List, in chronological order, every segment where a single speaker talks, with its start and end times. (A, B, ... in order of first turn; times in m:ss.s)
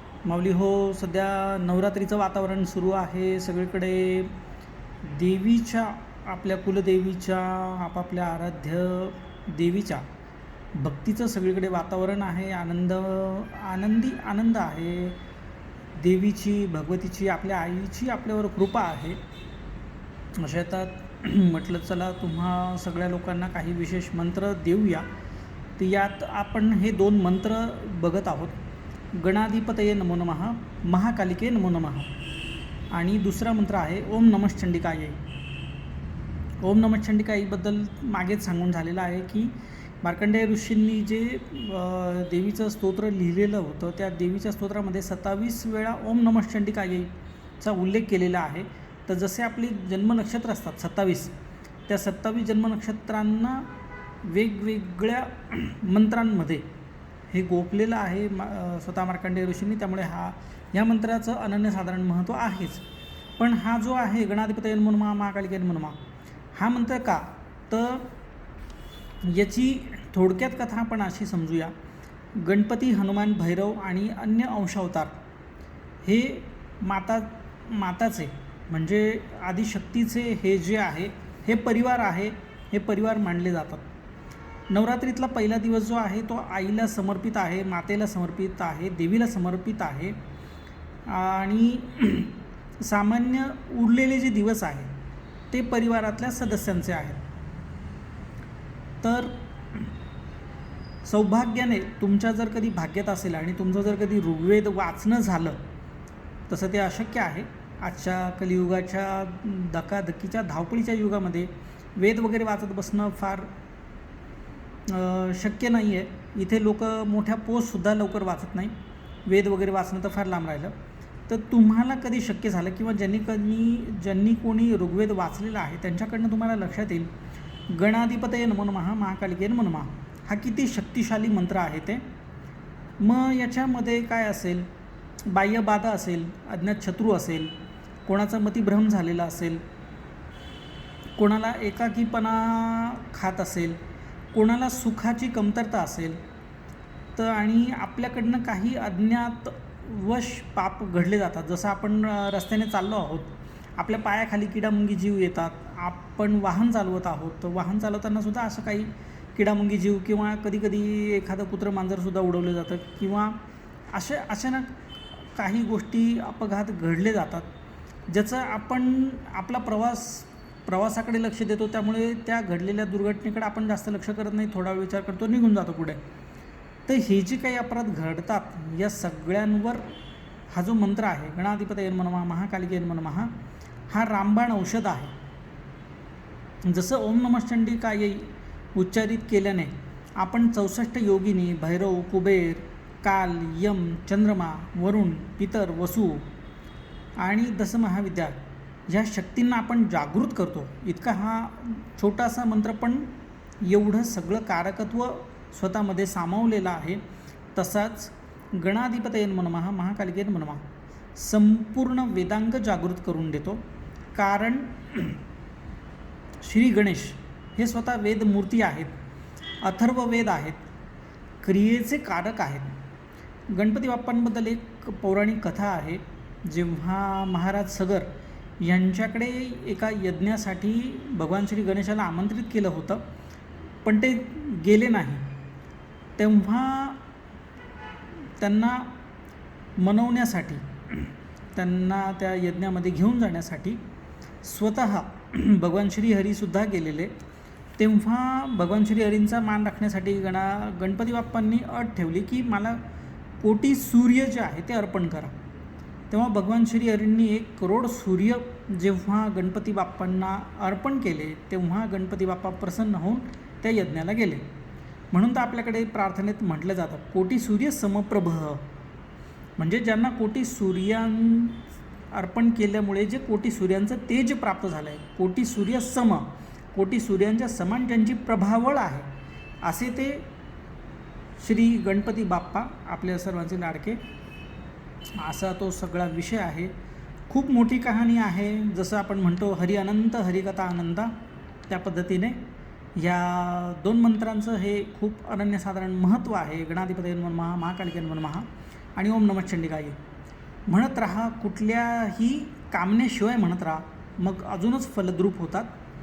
0:00.2-0:04.3 A
0:05.0-0:10.1 A
0:10.7-0:15.2 A
0:16.0-0:19.2 A
0:20.4-0:25.0 A
0:25.8-0:28.6 A
0:29.1-0:32.1 A
0:32.9-0:35.2 A
0:36.6-0:51.3 A
0:51.9-0:53.7 A
0:54.2-0:56.7 A
0:57.3-1:02.8 A
1:03.4-1:06.0 A
1:06.5-1:08.1 A
1:09.2-1:11.7 A
1:12.4-1:15.2 A
1:16.0-1:23.8 A
1:24.7-1:30.2 A
1:31.1-1:34.9 A
1:35.5-1:37.2 A
1:39.0-1:39.9 A
1:41.0-1:45.6 A
1:46.5-1:53.5 A
1:54.9-1:58.7 A
1:59.2-2:00.7 A
2:01.3-2:07.1 A
2:07.7-2:12.0 A
2:13.0-2:14.7 A
2:15.3-2:17.5 A
2:18.0-2:19.6 A
2:21.2-2:23.8 A
2:24.3-2:26.2 A
2:27.2-2:43.4 A
2:43.9-2:44.7 A
2:45.3-2:47.5 A
2:48.1-2:56.0 A
2:56.8-2:59.8 A
3:00.5-3:03.3 A
3:03.9-3:05.1 A
3:06.6-3:16.3 A
3:17.2-3:23.1 A
3:23.6-3:27.0 A
3:27.5-3:30.6 A
3:31.2-3:33.6 A
3:34.1-3:35.2 A
3:36.4-3:38.9 A
3:39.6-3:40.6 A
3:41.4-3:42.7 A
3:43.5-3:53.0 A
3:53.8-3:55.3 A
3:56.2-3:57.0 A
3:58.4-3:58.9 A
3:59.8-4:03.8 A
4:04.4-4:07.1 A
4:07.8-4:12.8 A
4:13.4-4:15.3 A
4:16.1-4:24.4 A
4:25.1-4:28.6 A
4:29.6-4:31.6 A
4:32.1-4:39.1 A
4:39.6-4:40.3 A
4:41.4-4:44.0 A
4:45.2-4:46.7 A
4:47.3-4:51.1 A
4:51.7-4:52.4 A
4:53.0-5:00.0 A
5:00.7-5:05.8 A